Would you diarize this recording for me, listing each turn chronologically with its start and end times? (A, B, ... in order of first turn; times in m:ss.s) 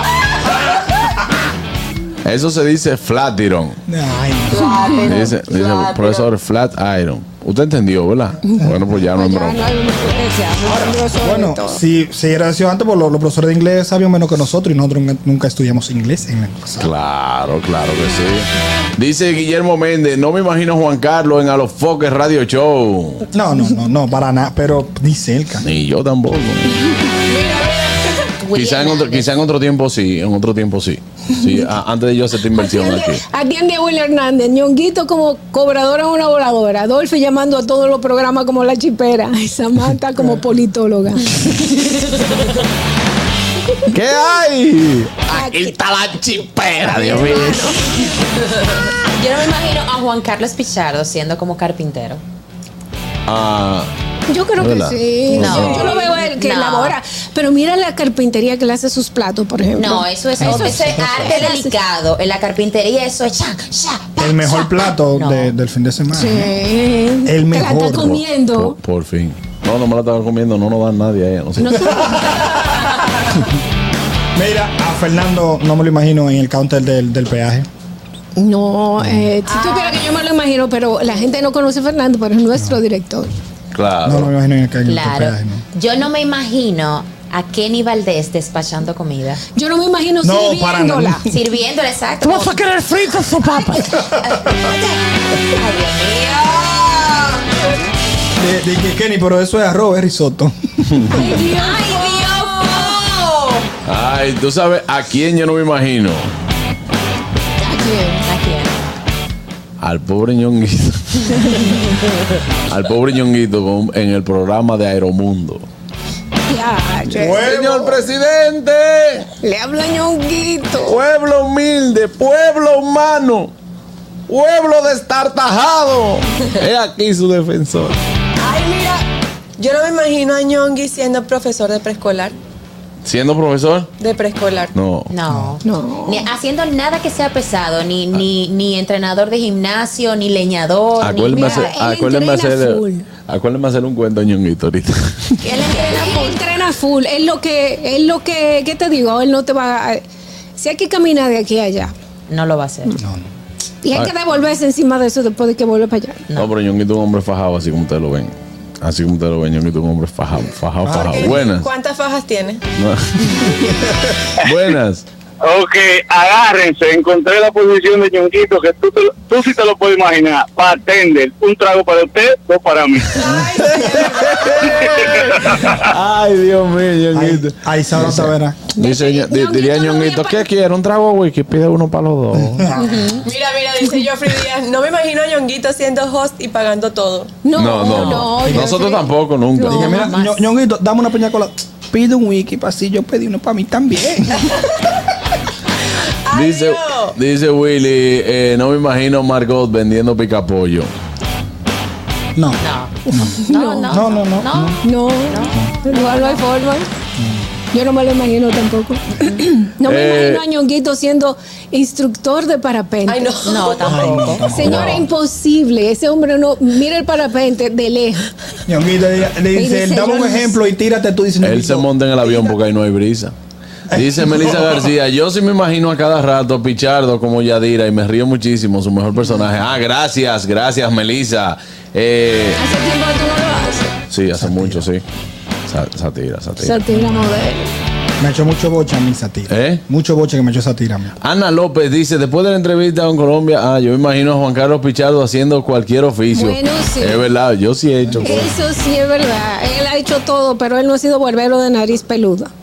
0:02.2-0:03.8 A
0:03.9-0:04.8 B
0:04.6-0:05.1 C
0:05.0-0:09.7 A
0:09.1-0:11.8 C
0:10.6-0:16.9 B
0:16.8-0:23.2 A
0:23.3-0:25.6 B
0:25.6-0:27.0 A
0:27.3-0:28.0 D
0:28.4-0:29.3 E
0:28.5-0:33.2 A
0:32.5-0:41.5 C
0:43.9-0:47.7 A
0:45.3-0:45.7 C
0:46.8-0:47.9 C
0:48.9-0:52.2 E
0:53.3-0:53.9 A
0:54.3-1:01.7 C
0:54.6-0:56.0 A
0:55.3-0:57.0 E
0:59.8-1:05.5 E
1:00.4-1:01.5 B
1:04.2-1:06.5 B
1:06.1-1:08.8 C
1:07.2-1:08.2 B
1:08.0-1:12.1 A
1:11.6-1:12.9 C
1:11.9-1:12.6 B
1:14.3-1:17.7 B
1:18.4-1:23.3 C
1:19.0-1:19.3 B
1:19.4-1:20.0 D
1:23.7-1:24.3 A
1:24.0-1:25.6 B
1:24.8-1:29.4 E
1:29.5-1:31.2 C
1:30.2-1:31.4 B
1:31.3-1:32.6 E
1:32.2-1:34.0 A
1:34.0-1:34.3 B
1:34.0-1:37.7 E
1:38.4-1:41.2 B
1:40.9-1:41.2 A
1:41.1-1:43.0 C
1:41.4-1:43.7 E
1:43.8-1:46.3 A
1:47.6-1:48.2 C
1:48.2-1:48.8 E
1:49.8-1:51.5 A
1:52.7-1:55.6 A
1:56.5-1:57.5 C
1:57.1-1:58.0 B
1:57.2-1:59.3 A
1:59.4-2:01.0 C
2:00.8-2:03.5 A
2:04.3-2:08.0 A
2:08.4-2:09.0 D
2:09.6-2:12.3 D
2:13.0-2:13.9 A
2:14.0-2:14.7 D
2:14.7-2:15.1 A
2:15.1-2:21.7 E
2:15.3-2:15.6 B
2:15.6-2:16.2 C
2:21.0-2:25.4 A
2:21.3-2:23.1 C
2:25.4-2:26.4 E
2:25.7-2:30.0 C
2:30.6-2:31.9 C
2:32.3-2:33.0 E
2:33.0-2:33.3 B
2:33.8-2:36.2 C
2:36.4-2:41.7 A
2:40.8-2:41.4 B
2:41.0-2:42.6 D
2:42.8-2:43.5 A
2:43.6-2:44.0 B
2:44.4-2:45.0 A
2:45.4-2:53.2 F
2:53.2-2:54.7 D
2:53.6-3:02.7 A
2:57.1-2:58.6 B
2:58.8-3:00.4 C
3:02.4-3:03.0 B
3:02.8-3:03.2 E
3:03.2-3:07.3 D
3:07.4-3:10.1 C
3:07.5-3:10.0 A
3:07.9-3:08.3 E
3:08.4-3:08.8 B
3:09.6-3:14.5 B
3:09.8-3:10.4 E
3:16.3-3:17.2 D
3:16.3-3:20.9 A
3:22.4-3:24.8 B
3:22.6-3:26.4 E
3:23.2-3:24.0 C
3:24.8-3:26.9 C
3:27.2-3:27.5 B
3:27.7-3:33.3 C
3:29.8-3:30.4 A
3:33.1-3:34.4 D
3:33.4-3:35.0 E
3:33.8-3:35.0 B
3:34.4-3:38.3 C
3:34.6-3:35.0 A
3:38.7-3:41.9 B
3:39.5-3:40.6 C
3:41.4-3:43.3 A
3:43.9-3:44.8 B
3:43.9-3:52.6 A
3:52.6-3:53.9 C
3:54.1-3:55.0 A
3:54.4-3:54.9 B
3:55.7-3:56.8 A
3:56.6-3:57.7 C
3:56.9-3:57.4 B
3:58.2-4:01.2 B
3:59.5-3:59.8 A
4:01.2-4:08.5 A
4:06.3-4:07.2 C
4:08.1-4:08.3 B
4:08.2-4:12.5 C